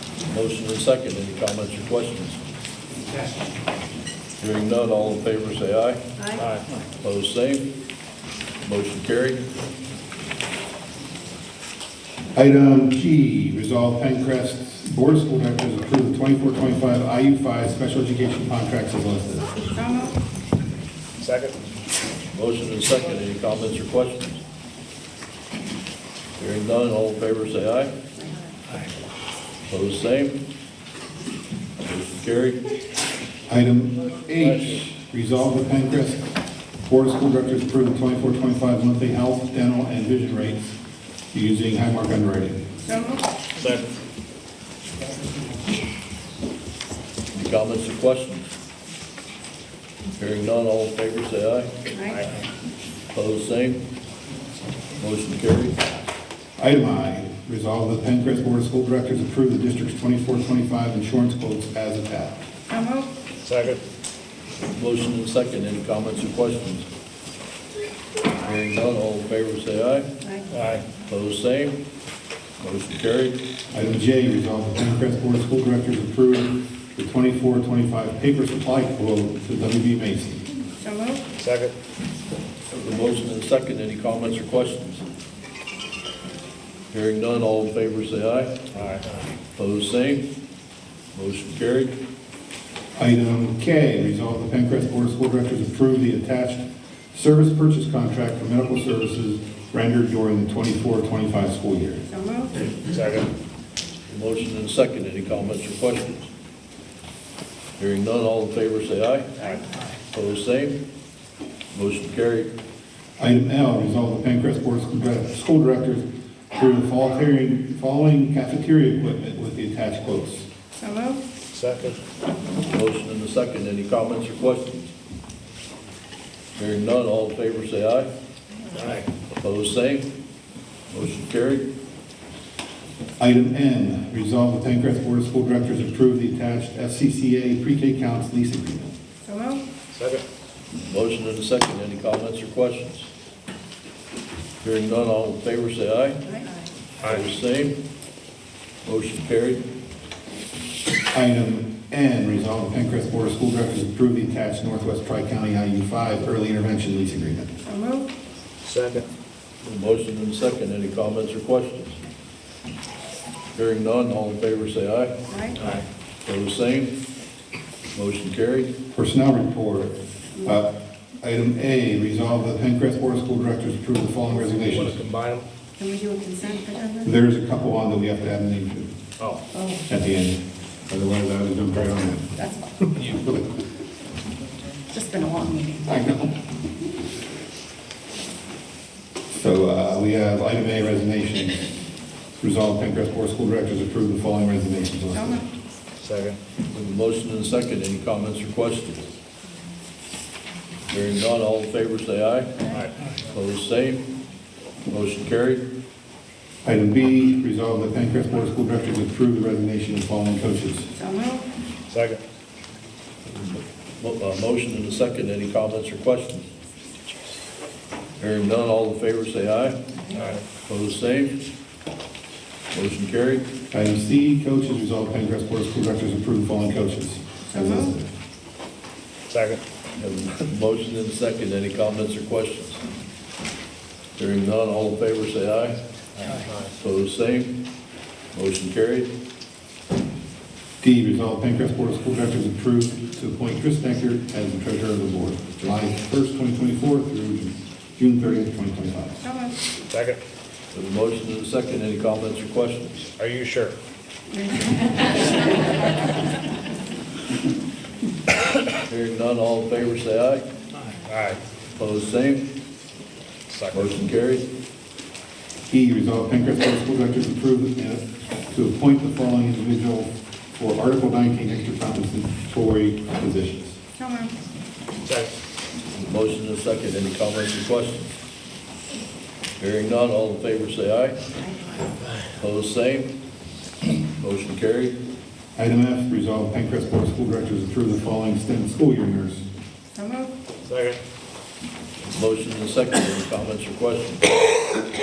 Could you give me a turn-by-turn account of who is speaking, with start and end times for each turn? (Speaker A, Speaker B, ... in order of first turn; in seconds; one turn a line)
Speaker A: 0.3-2.4
Speaker A: 4.4-6.0
Speaker B: 6.2-6.5
Speaker C: 6.4-6.6
Speaker A: 7.0-7.7
Speaker A: 8.6-9.4
Speaker D: 12.3-19.6
Speaker B: 19.6-20.2
Speaker C: 21.2-21.6
Speaker A: 22.3-24.4
Speaker A: 26.4-27.9
Speaker A: 29.7-30.4
Speaker A: 31.9-32.6
Speaker D: 33.5-36.3
Speaker A: 34.3-34.8
Speaker D: 36.9-40.7
Speaker D: 41.3-42.6
Speaker B: 42.8-43.3
Speaker C: 43.6-43.9
Speaker A: 47.3-48.5
Speaker A: 50.2-51.7
Speaker B: 51.9-52.2
Speaker C: 52.1-52.4
Speaker A: 53.1-53.8
Speaker A: 55.0-55.8
Speaker D: 56.6-62.4
Speaker B: 62.7-63.1
Speaker C: 63.4-63.8
Speaker A: 64.8-66.9
Speaker A: 68.4-70.1
Speaker B: 70.2-70.6
Speaker C: 70.5-70.8
Speaker A: 71.1-71.8
Speaker A: 72.6-73.4
Speaker D: 73.7-80.5
Speaker B: 80.8-81.3
Speaker C: 81.4-81.8
Speaker A: 82.7-85.0
Speaker A: 86.9-88.6
Speaker C: 88.7-89.1
Speaker A: 89.6-90.3
Speaker A: 91.1-92.0
Speaker D: 93.0-102.0
Speaker B: 102.1-102.7
Speaker C: 102.8-103.3
Speaker A: 104.1-106.3
Speaker A: 107.8-109.6
Speaker A: 110.1-110.8
Speaker A: 111.7-112.5
Speaker D: 113.2-120.5
Speaker B: 120.8-121.2
Speaker C: 121.5-122.0
Speaker A: 122.7-124.9
Speaker A: 126.6-128.1
Speaker C: 128.7-129.1
Speaker A: 129.4-130.1
Speaker A: 130.9-131.7
Speaker D: 133.2-138.9
Speaker B: 139.3-139.7
Speaker C: 139.9-140.2
Speaker A: 140.8-143.1
Speaker A: 144.6-146.2
Speaker B: 146.3-146.7
Speaker A: 147.0-147.8
Speaker A: 148.8-149.7
Speaker D: 151.1-157.5
Speaker B: 157.7-158.1
Speaker C: 158.6-159.1
Speaker A: 159.6-162.0
Speaker A: 163.6-165.2
Speaker B: 165.3-165.6
Speaker C: 165.6-165.8
Speaker A: 166.2-167.0
Speaker A: 167.9-168.7
Speaker D: 168.9-175.0
Speaker C: 174.6-175.4
Speaker B: 175.8-177.1
Speaker D: 177.0-178.9
Speaker B: 179.5-179.8
Speaker D: 179.9-182.4
Speaker B: 182.4-182.7
Speaker D: 183.0-183.5
Speaker B: 184.9-185.9
Speaker D: 185.9-186.4
Speaker D: 189.4-191.7
Speaker D: 192.4-195.4
Speaker B: 195.1-195.4
Speaker C: 196.0-196.4
Speaker A: 196.7-199.1
Speaker A: 200.9-202.6
Speaker A: 203.3-204.1
Speaker A: 204.9-205.7
Speaker D: 206.6-210.9
Speaker B: 210.9-211.5
Speaker C: 211.9-212.2
Speaker A: 214.0-216.5
Speaker A: 218.2-219.8
Speaker B: 220.0-220.3
Speaker C: 220.2-220.4
Speaker A: 220.6-221.4
Speaker A: 222.7-223.5
Speaker D: 223.7-228.1
Speaker B: 227.5-227.9
Speaker C: 229.3-229.6
Speaker A: 230.0-232.8
Speaker A: 234.2-235.8
Speaker C: 236.2-236.5
Speaker A: 236.8-237.6
Speaker A: 238.3-239.1
Speaker D: 240.8-249.2
Speaker B: 249.2-249.6
Speaker C: 249.9-250.2
Speaker A: 250.7-253.1
Speaker C: 253.2-253.8
Speaker B: 254.3-255.7
Speaker A: 258.8-260.5
Speaker C: 261.0-261.4
Speaker A: 261.7-262.5
Speaker C: 263.5-264.0
Speaker A: 263.7-264.5
Speaker D: 265.7-273.8
Speaker B: 273.9-274.4
Speaker C: 275.1-275.3
Speaker A: 276.0-278.1
Speaker A: 279.6-281.2
Speaker B: 281.4-281.8
Speaker A: 282.4-283.1
Speaker A: 284.2-285.0
Speaker D: 285.6-289.4
Speaker B: 289.9-290.3
Speaker C: 290.6-291.0
Speaker A: 292.1-294.2